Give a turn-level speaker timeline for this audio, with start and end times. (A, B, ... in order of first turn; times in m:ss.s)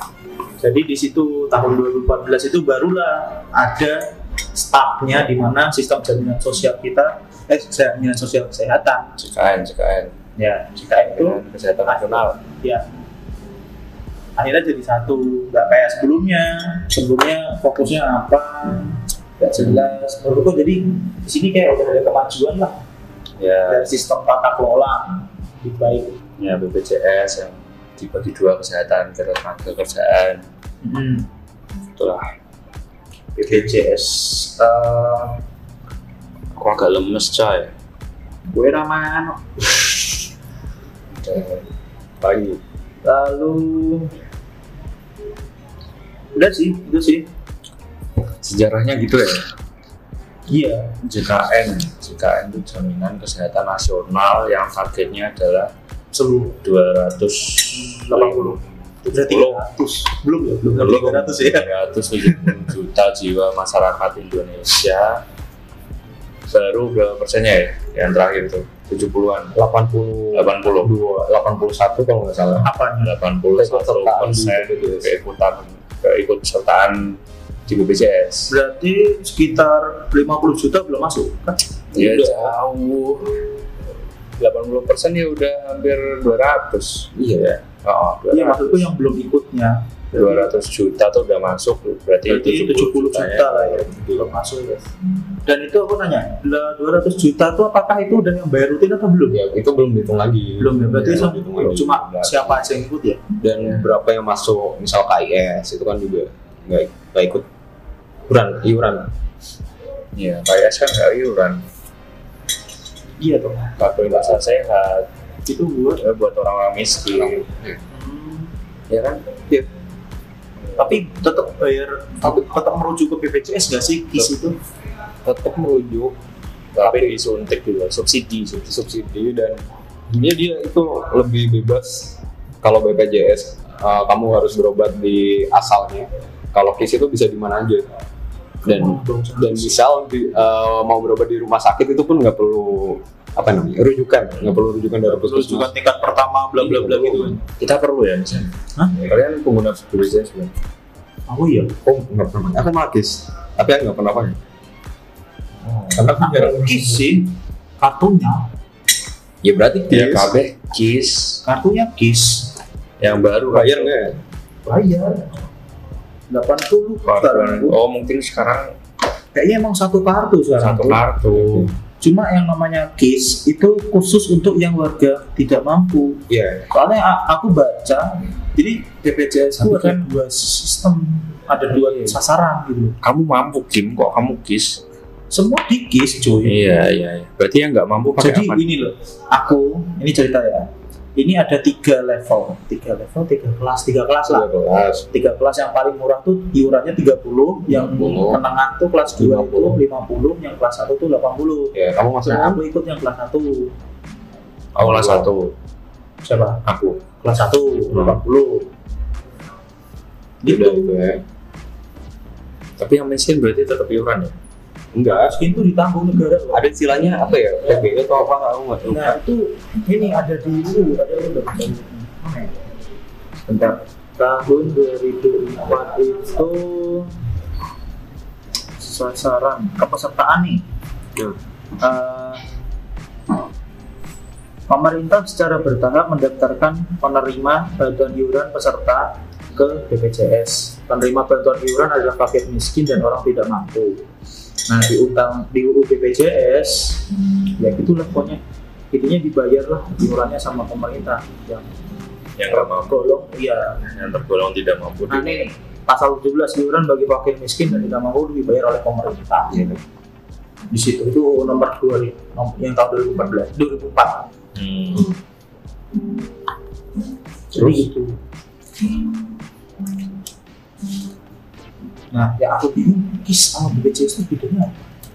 0:00.6-0:04.0 A
0:04.5-0:09.2 A
0:09.2-0:10.1 B
0:10.4-0:12.8 A
0:11.0-0:12.4 B
0:14.4-0:22.8 A
0:23.4-0:24.0 B
0:23.7-0:26.2 A
0:26.4-0:30.4 B
0:30.8-0:31.3 A
0:32.0-0:32.2 B
0:33.4-0:35.4 A
0:33.5-0:33.7 B
0:36.5-0:37.7 B
0:38.5-0:39.4 A
0:41.2-0:41.6 B
0:42.2-0:42.6 C
0:43.0-0:44.1 A
0:46.3-0:47.3 A
0:48.3-0:49.4 B
0:50.5-0:51.0 A
0:51.0-0:55.7 B
0:56.1-0:56.6 A
0:56.5-0:59.6 B
0:57.7-1:01.7 A
1:00.7-1:05.2 B
1:06.5-1:09.6 B
1:09.5-1:12.7 C
1:10.3-1:11.0 B
1:12.4-1:18.5 B
1:12.6-1:13.1 A
1:13.6-1:15.1 C
1:18.5-1:22.6 A
1:21.9-1:23.4 B
1:24.4-1:28.9 B
1:27.1-1:27.5 C
1:28.3-1:30.5 A
1:30.2-1:34.2 B
1:32.3-1:34.9 A
1:35.4-1:39.4 A
1:39.3-1:42.0 C
1:40.6-1:43.2 A
1:41.0-1:42.6 B
1:43.4-1:47.4 C
1:43.6-1:43.9 B
1:48.3-1:49.1 C
1:50.2-1:51.6 B
1:53.2-1:53.8 A
1:53.8-1:55.1 B
1:55.4-1:56.0 A
1:56.0-1:57.5 B
1:57.9-1:58.5 A
1:58.9-1:59.6 B
2:00.8-2:04.6 A
2:05.2-2:06.1 C
2:06.8-2:07.2 C
2:06.8-2:08.7 B
2:08.6-2:17.9 C
2:18.6-2:19.7 A
2:18.6-2:25.7 C
2:25.1-2:27.4 A
2:26.6-2:27.3 C
2:27.5-2:30.5 B
2:31.3-2:31.7 A
2:31.8-2:34.4 C
2:35.6-2:36.6 B
2:35.9-2:36.8 C
2:36.1-2:38.5 A
2:39.4-2:40.3 C
2:39.9-2:41.4 B
2:41.4-2:42.5 A
2:43.0-2:43.9 B
2:43.5-2:44.2 C
2:44.6-2:45.3 A
2:46.3-2:47.8 A
2:47.0-2:48.7 B
2:49.3-2:51.0 A
2:50.6-2:51.7 B
2:51.4-2:51.7 C
2:52.0-3:02.9 A
2:56.3-2:56.6 C
2:59.6-3:00.1 B
3:01.7-3:02.2 B
3:03.0-3:04.8 B
3:05.3-3:06.6 A
3:06.4-3:08.7 B
3:08.2-3:14.5 A
3:14.3-3:15.0 C
3:15.1-3:21.7 A
3:17.7-3:18.4 C
3:19.3-3:19.7 C
3:21.7-3:22.6 C
3:22.2-3:23.7 A
3:24.8-3:25.5 B
3:24.8-3:25.3 C
3:26.2-3:26.6 A
3:26.6-3:27.0 B
3:27.2-3:28.7 A
3:30.4-3:31.0 A
3:30.4-3:31.2 C
3:32.8-3:34.3 B
3:34.9-3:35.4 C
3:35.1-3:36.6 A
3:36.5-3:39.2 C
3:38.8-3:42.6 A
3:44.2-3:47.2 A
3:48.8-3:50.6 A
3:51.8-3:52.4 A
3:54.7-4:04.0 A
4:04.7-4:07.0 A
4:07.6-4:08.4 A
4:08.9-4:11.7 A
4:12.4-4:13.2 B
4:12.5-4:13.8 A
4:13.8-4:15.4 B
4:15.1-4:19.6 A
4:19.5-4:19.8 C
4:20.7-4:24.3 A
4:24.5-4:25.1 B
4:27.5-4:28.2 A
4:32.1-4:34.7 A